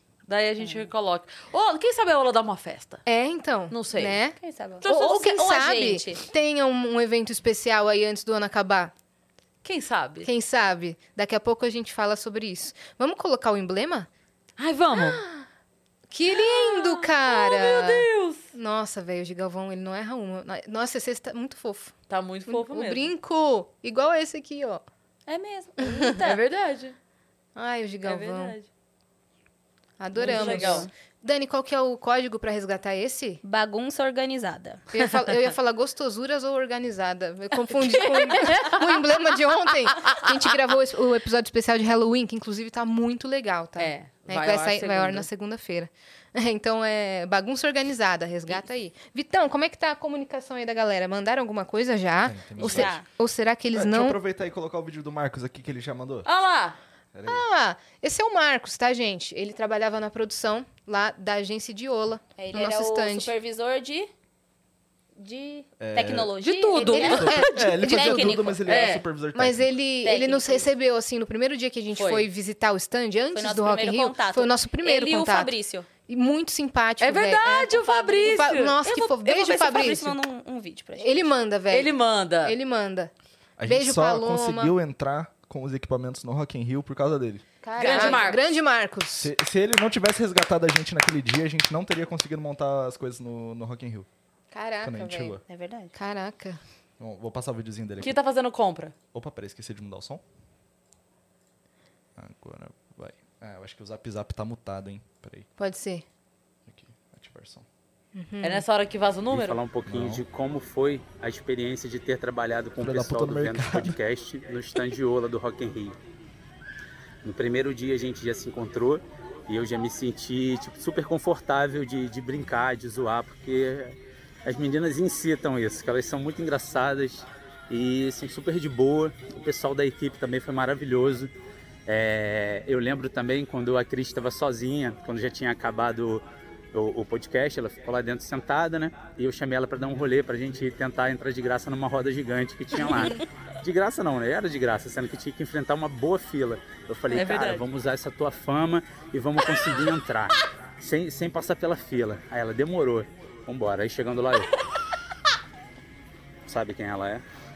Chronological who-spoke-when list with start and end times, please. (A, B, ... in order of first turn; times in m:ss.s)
0:00.3-0:03.0 A
0:03.1-0:08.9 B
0:03.7-0:04.2 A
0:04.4-0:06.2 C
0:04.8-0:05.1 A
0:09.6-0:10.3 A
0:10.2-0:14.1 B
0:14.6-0:15.2 A
0:14.9-0:15.5 B
0:16.1-0:22.0 B
0:16.3-0:18.5 A
0:22.1-0:23.1 A
0:22.5-0:24.8 B
0:25.3-0:26.4 C
0:25.9-0:26.1 B
0:26.2-0:27.0 A
0:27.6-0:28.6 B
0:28.0-0:28.7 A
0:30.0-0:33.4 B
0:30.2-0:30.9 A
0:30.2-0:30.9 C
0:33.4-0:34.9 C
0:34.9-0:54.2 B
0:37.8-0:38.9 A
0:40.0-0:40.3 A
0:43.8-0:45.3 A
0:52.2-0:53.0 D
0:52.6-0:53.1 C
0:53.7-0:56.3 D
0:56.2-0:56.8 A
0:57.1-0:57.4 D
0:57.2-1:03.3 B
1:02.4-1:04.1 C
1:05.2-1:09.0 C
1:05.8-1:06.3 D
1:06.4-1:07.4 A
1:06.8-1:08.5 B
1:07.0-1:09.7 D
1:08.7-1:09.0 A
1:09.3-1:15.5 B
1:10.0-1:10.7 C
1:12.0-1:12.3 A
1:13.3-1:15.9 C
1:16.1-1:20.2 B
1:17.0-1:18.8 A
1:17.8-1:21.3 C
1:21.0-1:23.1 B
1:21.7-1:22.6 A
1:23.6-1:27.4 D
1:23.6-1:24.8 B
1:27.6-1:29.3 B
1:27.8-1:28.3 C
1:27.8-1:28.4 A
1:29.2-1:34.1 D
1:34.5-1:35.4 B
1:34.8-1:35.4 D
1:35.5-1:35.9 C
1:36.0-1:36.6 B
1:37.0-1:38.2 D
1:38.0-1:39.0 A
1:39.1-1:40.2 D
1:42.2-1:45.5 D
1:45.6-1:46.0 B
1:46.7-1:47.7 D
1:48.1-1:48.6 B
1:48.4-1:49.6 A
1:49.3-1:56.0 E
1:49.9-1:50.2 D
1:52.8-1:54.0 D
1:57.2-2:11.3 E
2:11.9-2:34.5 E
2:27.1-2:27.6 A
2:36.5-2:37.2 E